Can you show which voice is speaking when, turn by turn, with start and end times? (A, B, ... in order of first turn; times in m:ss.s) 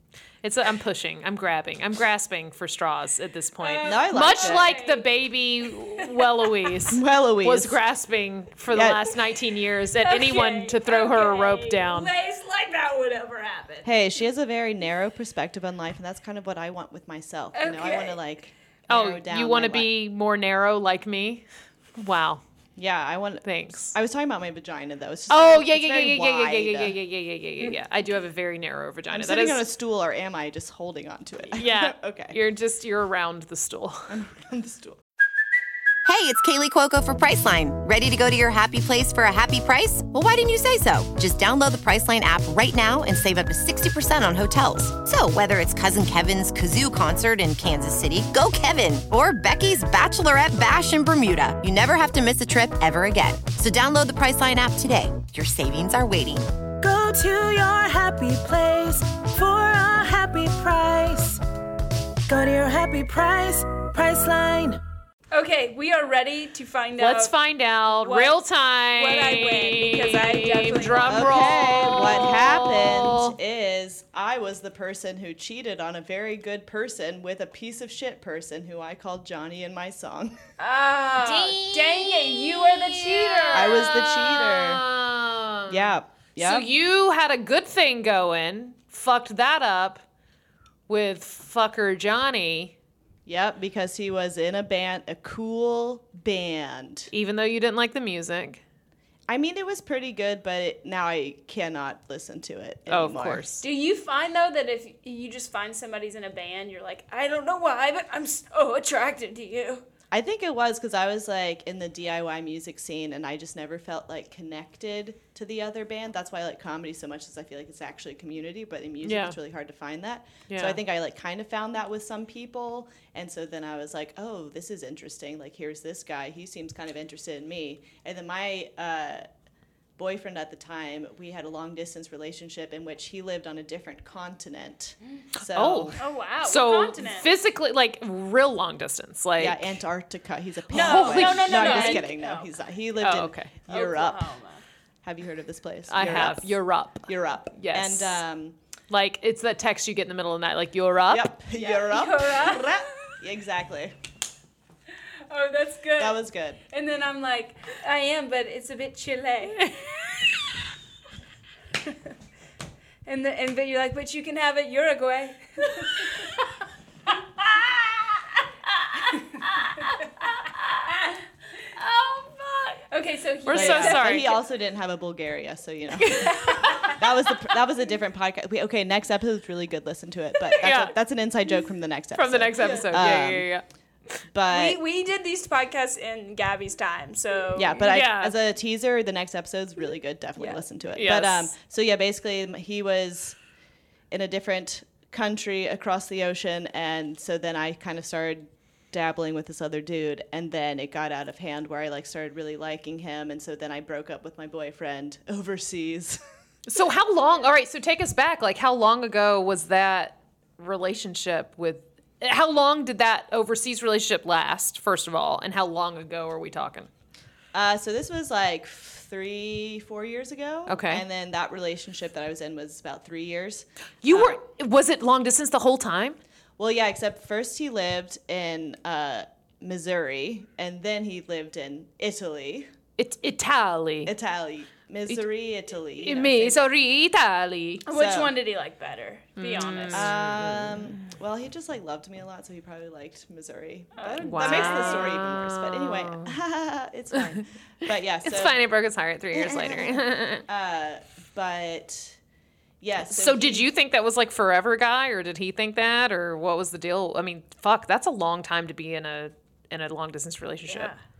0:00.4-0:12.1 A
0:03.6-0:05.1 B
0:03.8-0:04.7 C
0:06.0-0:06.5 B
0:06.9-0:07.8 C
0:08.7-0:09.1 C
0:10.0-0:13.9 B
0:13.8-0:19.9 C
0:17.6-0:18.2 B
0:18.9-0:21.4 A
0:22.0-0:22.4 A
0:22.8-0:27.0 C
0:23.4-0:24.0 A
0:25.3-0:29.6 A
0:29.1-0:32.4 C
0:31.6-0:34.1 A
0:34.1-0:35.0 C
0:36.0-0:56.5 D
0:56.8-1:01.4 E
1:02.3-1:04.8 E
1:05.3-1:07.3 B
1:07.0-1:13.4 A
1:07.9-1:08.4 B
1:08.9-1:11.6 B
1:11.1-1:20.4 C
1:20.6-1:23.9 B
1:21.2-1:30.0 A
1:23.5-1:24.8 C
1:25.7-1:26.7 C
1:30.9-1:32.8 A
1:33.3-1:37.1 C
1:37.1-1:38.6 A
1:39.3-1:43.4 C
1:42.9-1:43.6 A
1:43.6-1:49.9 B
1:50.1-2:09.3 C
1:59.0-1:59.4 A
2:00.5-2:00.8 A
2:10.0-2:16.0 C
2:15.5-2:19.7 A
2:16.0-2:17.3 B
2:19.4-2:24.3 C
2:20.7-2:22.1 A
2:20.7-2:22.5 B
2:23.0-2:23.6 A
2:23.7-2:24.6 B
2:25.0-2:28.6 C
2:25.9-2:28.2 A
2:28.9-2:31.3 A
2:31.1-2:34.0 C
2:31.5-2:32.8 B
2:35.3-2:39.9 B
2:36.0-2:36.6 C
2:43.0-2:46.4 B
2:47.1-2:54.4 B
2:53.5-2:54.3 A
2:53.5-3:03.5 C
2:56.0-2:56.9 A
2:56.2-2:57.1 B
3:00.6-3:00.9 A
3:02.1-3:03.6 A
3:02.6-3:02.9 B
3:04.3-3:04.8 C
3:04.5-3:07.8 B
3:07.5-3:13.4 C
3:07.8-3:08.4 A
3:11.0-3:11.5 A
3:14.1-3:26.2 C
3:26.7-3:36.9 A
3:37.5-3:44.4 C
3:40.7-3:41.0 A
3:44.0-3:46.2 A
3:46.6-3:52.7 C
3:53.0-3:54.1 A
3:54.1-3:56.7 C
3:56.0-3:57.8 A
3:57.9-4:00.1 B
3:57.9-3:58.4 C
3:59.4-4:01.1 A
3:59.9-4:08.6 C
4:04.0-4:05.1 B
4:04.2-4:06.4 A
4:08.2-4:10.4 A
4:09.3-4:12.2 C
4:12.8-4:13.7 C
4:13.1-4:20.9 A
4:20.7-4:21.0 B